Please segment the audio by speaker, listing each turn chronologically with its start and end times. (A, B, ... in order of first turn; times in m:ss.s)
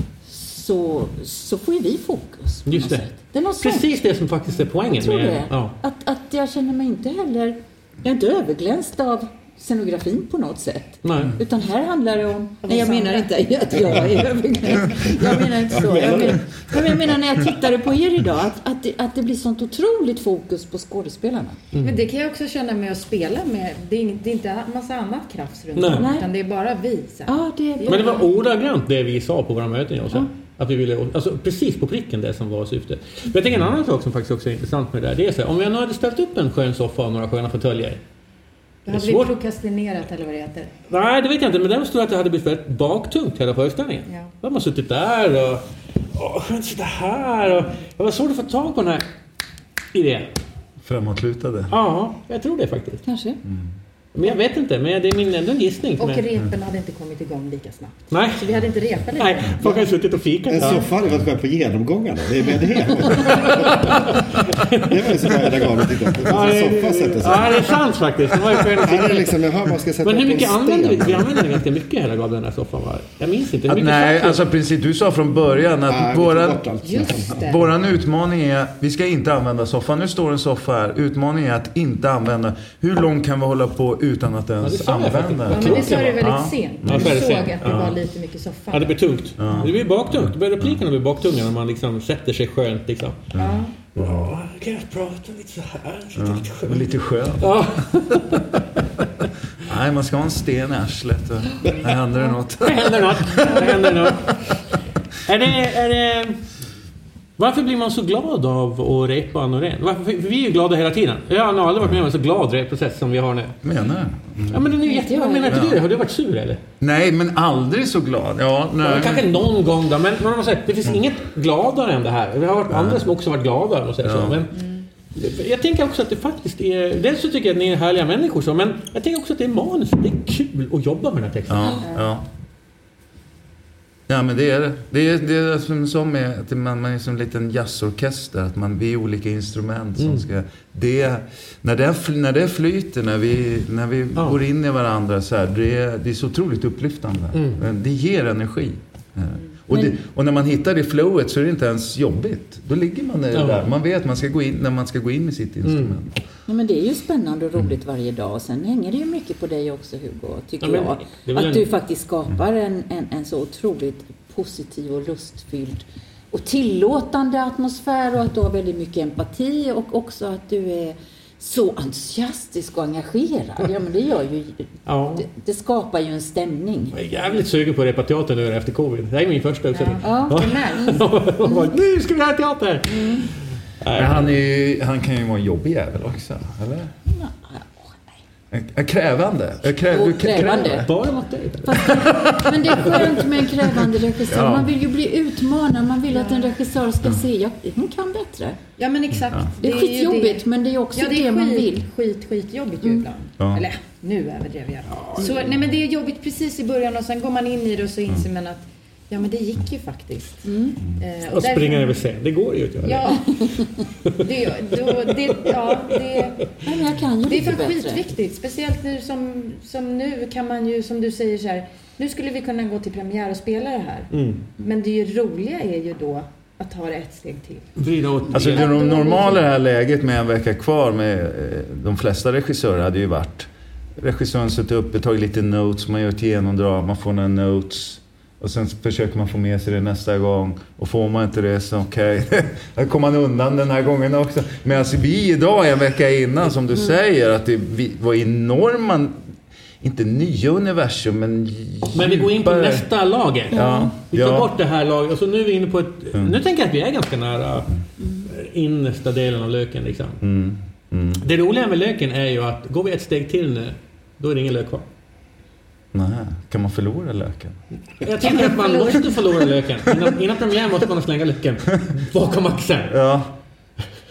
0:00.2-0:03.9 A
0:02.7-0:03.1 B
0:03.6-0:05.7 B
0:04.7-0:21.6 A
0:11.0-0:11.4 B
0:12.6-0:13.3 C
0:15.0-0:17.0 D
0:21.7-0:22.0 B
0:21.8-0:28.2 C
0:25.7-0:26.1 B
0:25.9-0:26.3 A
0:27.2-0:28.2 A
0:27.9-0:38.0 B
0:38.8-0:40.7 C
0:38.9-0:39.3 B
0:40.9-0:49.0 B
0:49.9-0:50.3 B
0:50.8-0:51.7 E
0:51.7-0:53.0 B
0:53.0-0:53.4 A
0:53.4-0:53.7 E
0:54.1-0:56.2 B
0:56.0-0:59.7 C
0:58.1-0:58.5 B
0:59.2-1:00.9 B
1:00.5-1:07.8 D
1:03.1-1:05.1 B
1:06.2-1:09.4 B
1:08.6-1:11.6 D
1:10.0-1:14.4 B
1:13.7-1:16.6 E
1:15.9-1:17.4 D
1:16.8-1:17.7 C
1:17.4-1:27.9 E
1:24.6-1:26.3 B
1:25.5-1:29.6 C
1:26.8-1:28.0 B
1:28.7-1:33.3 B
1:29.4-1:30.8 E
1:33.3-1:34.3 E
1:33.3-1:33.7 C
1:33.9-1:38.6 B
1:36.2-1:38.3 E
1:39.6-1:44.4 E
1:41.6-1:41.9 D
1:42.6-1:44.3 B
1:45.2-1:46.4 B
1:47.4-1:53.6 B
1:53.6-1:54.7 E
1:54.5-1:56.6 B
1:54.8-1:55.6 C
1:54.8-1:55.6 A
1:55.5-1:55.8 E
1:56.8-1:59.3 E
1:58.8-2:04.6 B
2:02.7-2:03.0 E
2:04.0-2:04.4 E
2:04.5-2:04.9 C
2:05.1-2:11.8 B
2:11.5-2:12.2 E
2:11.6-2:11.9 A
2:11.8-2:12.1 C
2:14.1-2:36.2 E
2:20.0-2:20.2 B
2:27.3-2:27.6 B
2:29.7-2:30.0 A
2:33.3-2:33.7 B
2:35.6-2:36.0 B
2:36.5-2:57.0 A
2:40.6-2:41.6 B
2:54.8-2:55.3 B
2:56.9-3:04.4 B
2:59.7-3:01.0 C
3:00.0-3:01.7 A
3:03.0-3:03.2 A
3:03.9-3:06.9 E
3:07.1-3:08.0 A
3:08.5-3:10.9 E
3:09.7-3:10.9 A
3:10.8-3:13.0 B
3:11.6-3:18.6 A
3:11.8-3:14.7 E
3:16.1-3:16.6 C
3:18.8-3:32.0 C
3:19.6-3:21.8 A
3:23.4-3:23.6 E
3:24.9-3:25.5 B
3:30.4-3:30.8 A
3:31.3-3:34.2 B
3:32.8-3:36.6 C
3:34.8-3:36.2 B
3:36.6-3:38.0 A
3:37.2-3:47.8 C
3:44.1-3:44.4 B
3:47.8-3:48.7 B
3:48.3-3:49.4 C
3:48.3-4:09.2 E
4:09.8-4:12.9 E
4:11.9-4:17.7 B
4:13.5-4:14.5 E
4:13.5-4:13.9 A
4:18.0-4:18.3 A
4:18.2-4:20.2 B
4:20.2-4:21.2 E
4:21.2-4:24.8 B
4:25.9-4:27.6 E
4:28.0-4:32.9 B
4:28.3-4:29.2 C
4:32.9-4:33.3 E